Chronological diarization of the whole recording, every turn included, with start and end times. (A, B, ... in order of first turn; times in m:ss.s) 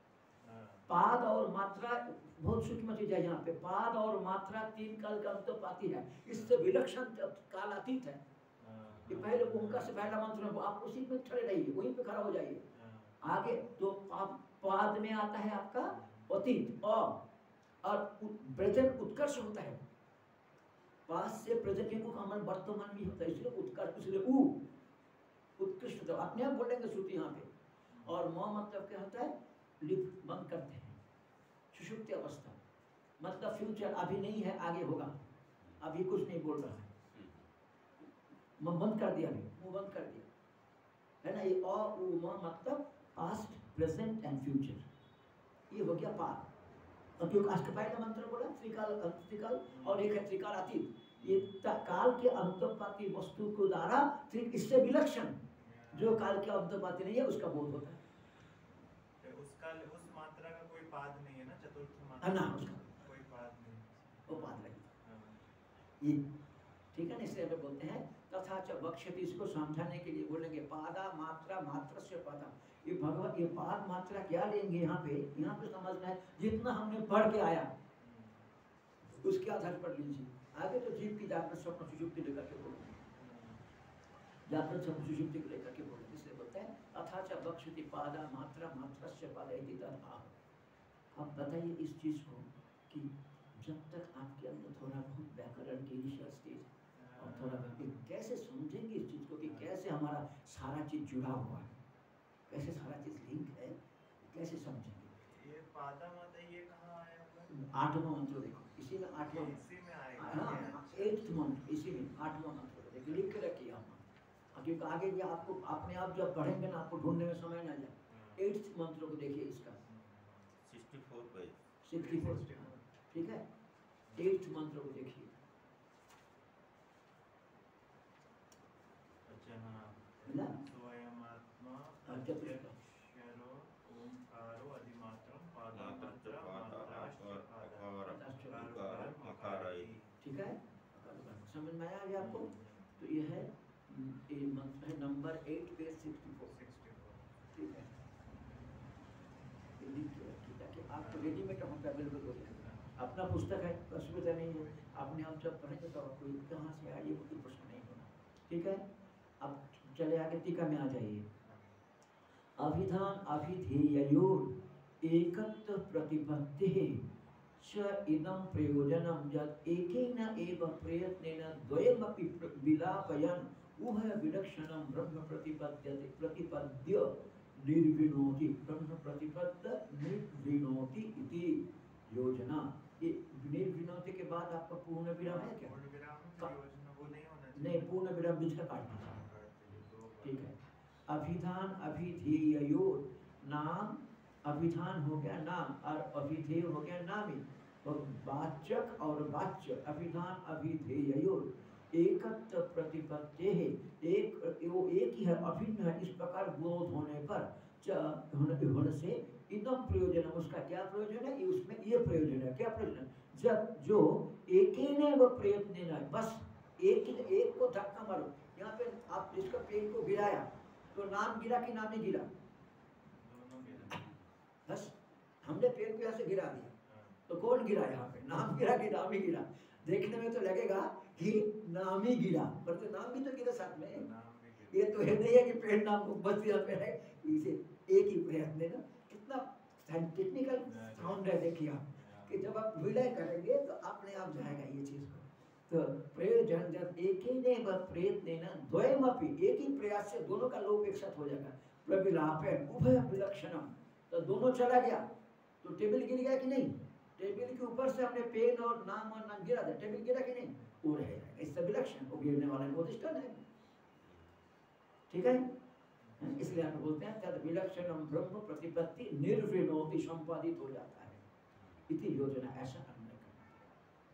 0:00.4-0:00.9 A
0:00.9-0:08.2 B
0:06.3-0:06.7 A
0:08.6-0:10.1 A
0:09.1-0:12.6 B
0:12.7-0:13.2 A
0:13.2-0:17.2 B
0:15.8-0:16.3 A
0:17.8-0:19.8 B
0:21.1-0:24.6 B
0:25.6-0:27.5 B
0:27.9-0:28.2 A
0:28.0-0:31.0 B
0:31.7-0:32.6 B
0:33.2-0:35.2 B
0:35.8-0:36.8 B
0:37.0-0:37.5 C
0:38.6-0:40.3 B
0:41.2-0:44.9 B
0:45.7-0:46.5 B
0:47.2-0:55.4 B
0:49.7-0:50.2 A
0:51.2-0:51.5 A
0:55.6-0:56.3 A
0:55.9-0:58.0 B
0:59.2-1:05.4 A
1:02.2-1:02.8 B
1:04.3-1:04.9 B
1:06.9-1:17.7 B
1:18.0-1:18.5 A
1:19.0-1:23.0 B
1:23.1-1:23.6 A
1:24.5-1:30.3 B
1:31.1-1:41.7 B
1:36.9-1:38.0 A
1:39.4-1:39.7 A
1:42.5-1:45.1 B
1:45.1-1:47.7 A
1:47.5-1:49.6 B
1:49.2-1:51.2 A
1:50.2-1:59.8 B
1:58.1-1:58.4 A
1:59.8-2:00.5 A
2:00.6-2:01.6 C
2:01.8-2:03.4 B
2:01.9-2:02.9 A
2:04.1-2:04.4 A
2:04.1-2:05.3 B
2:09.2-2:20.1 A
2:10.3-2:10.6 B
2:12.0-2:12.7 B
2:15.7-2:19.9 C
2:18.1-2:18.8 B
2:20.2-2:26.5 B
2:22.2-2:23.0 A
2:26.5-2:27.4 A
2:27.5-2:27.9 B
2:29.8-2:38.8 B
2:30.9-2:31.4 A
2:32.4-2:33.1 A
2:34.0-2:35.1 A
2:39.4-2:41.2 B
2:41.4-2:41.8 A
2:42.6-2:47.0 B
2:47.6-3:05.7 B
3:05.2-3:08.0 A
3:07.5-3:09.2 B
3:09.1-3:10.5 A
3:10.2-3:10.5 B
3:11.1-3:42.3 B
3:43.1-3:44.1 A
3:44.6-3:46.7 B
3:46.8-3:47.2 A
3:47.3-3:54.0 B
3:53.7-3:55.0 A
3:54.7-4:15.0 B
4:00.6-4:02.5 A
4:15.6-4:23.4 B
4:20.6-4:20.8 A
4:24.0-4:24.3 C
4:25.1-4:25.5 B
4:26.0-4:26.7 A
4:26.2-4:31.2 B
4:31.5-4:31.9 C
4:31.9-4:33.7 B